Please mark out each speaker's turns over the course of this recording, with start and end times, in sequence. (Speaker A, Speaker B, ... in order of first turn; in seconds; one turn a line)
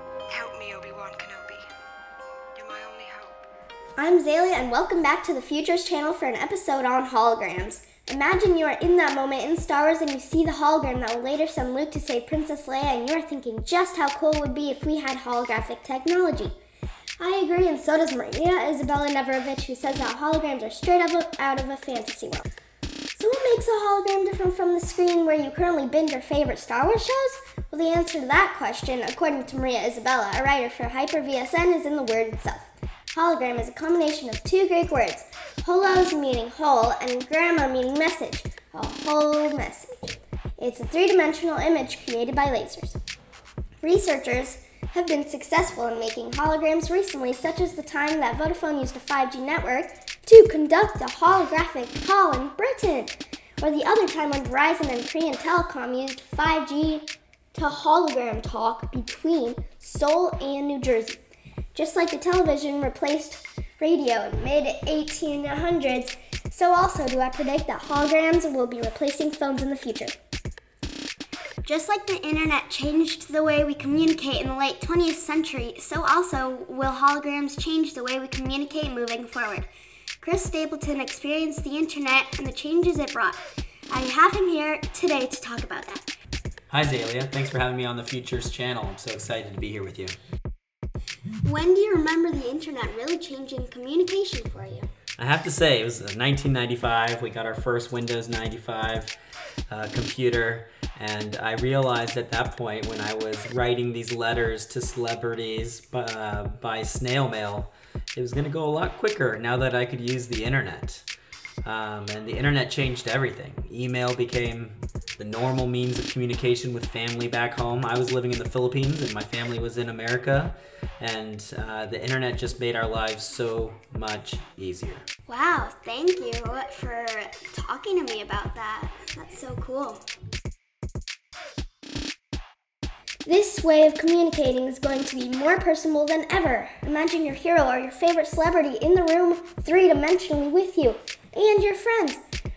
Speaker A: 0.3-1.6
Speaker A: 2.5-3.4
Speaker B: 4.0-16.6
Speaker B: 17.2-22.4
Speaker B: 23.1-43.0
Speaker B: 43.8-61.2
Speaker B: 61.7-70.1
Speaker B: 71.6-79.7
Speaker B: 80.2-86.1
Speaker C: 86.7-90.2
Speaker B: 91.4-94.9
Speaker C: 95.2-99.1
Speaker C: 99.7-111.0
Speaker C: 111.6-125.0
Speaker B: 125.3-130.0
Speaker B: 133.2-142.2